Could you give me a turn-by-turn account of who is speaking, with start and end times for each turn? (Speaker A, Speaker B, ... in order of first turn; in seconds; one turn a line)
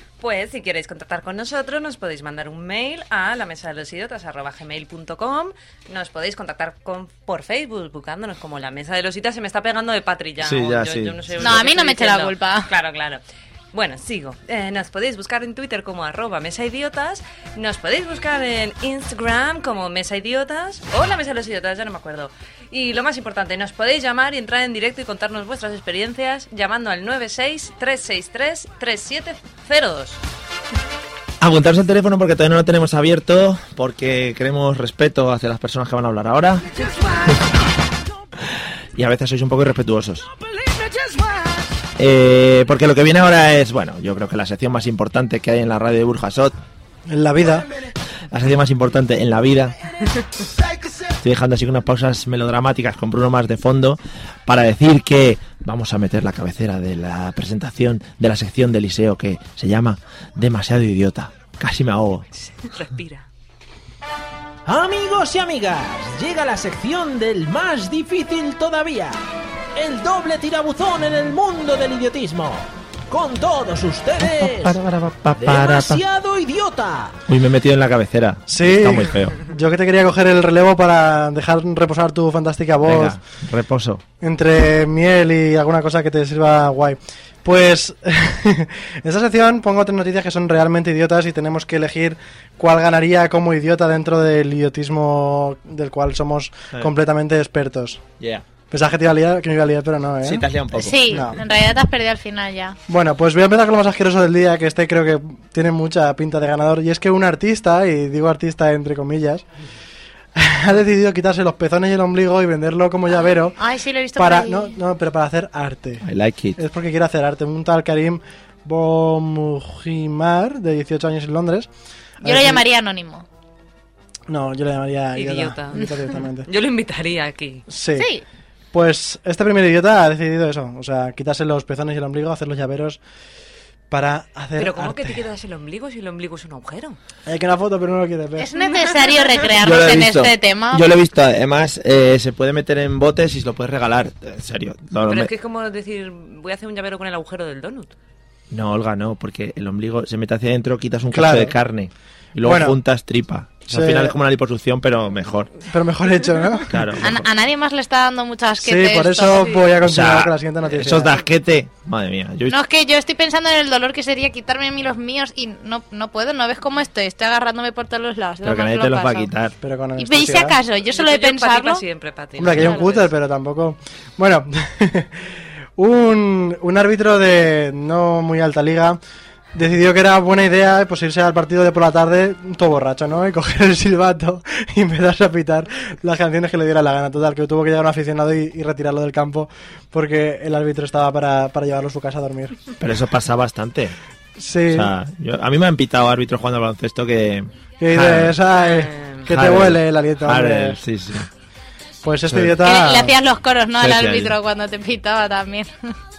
Speaker A: 0.2-13.2
Speaker B: 10.4-11.3
Speaker C: 11.4-12.7
Speaker A: 13.7-30.2
Speaker B: 31.4-36.7
Speaker B: 38.5-40.3
Speaker B: 42.0-46.5
Speaker D: 47.1-47.7
Speaker B: 48.3-49.8
Speaker B: 51.1-62.2
Speaker A: 62.4-63.3
Speaker E: 64.7-69.2
Speaker E: 69.8-74.8
Speaker B: 74.2-76.0
Speaker E: 75.4-77.2
Speaker B: 77.3-79.4
Speaker D: 78.5-83.2
Speaker B: 82.8-84.0
Speaker D: 84.2-98.0
Speaker B: 98.2-98.5
Speaker D: 98.7-100.5
Speaker B: 100.2-101.3
Speaker C: 100.8-102.8
Speaker D: 101.1-101.4
Speaker D: 102.9-109.4
Speaker D: 110.4-113.6
Speaker C: 113.6-114.7
Speaker D: 114.2-116.0
Speaker B: 116.0-116.6
Speaker D: 116.6-121.7
Speaker D: 122.2-122.6
Speaker C: 122.2-123.2
Speaker D: 124.3-126.5
Speaker A: 125.1-127.7
Speaker D: 127.7-128.1
Speaker C: 128.0-128.2
Speaker D: 128.7-133.0
Speaker D: 133.9-135.2
Speaker A: 134.6-137.0
Speaker D: 137.3-138.5
Speaker C: 138.4-140.9
Speaker B: 139.6-145.3
Speaker A: 145.1-147.9
Speaker B: 148.5-155.5
Speaker D: 151.1-151.6
Speaker D: 152.4-152.8
Speaker D: 153.7-154.2
Speaker D: 155.7-156.8
Speaker B: 156.7-157.3
Speaker C: 157.0-159.6
Speaker D: 158.6-161.2
Speaker A: 159.4-159.7
Speaker B: 159.8-162.6
Speaker C: 162.5-169.3
Speaker B: 168.4-169.6
Speaker D: 169.6-170.6
Speaker C: 170.0-171.8
Speaker A: 170.9-173.1
Speaker D: 172.4-175.2
Speaker D: 175.8-179.0
Speaker D: 179.5-192.7
Speaker B: 192.8-193.9
Speaker D: 194.4-194.9
Speaker B: 194.7-198.4
Speaker D: 197.8-200.8
Speaker A: 198.6-199.2
Speaker B: 199.2-201.3
Speaker D: 202.0-203.1
Speaker B: 202.3-202.6
Speaker C: 202.6-205.7
Speaker B: 203.8-204.4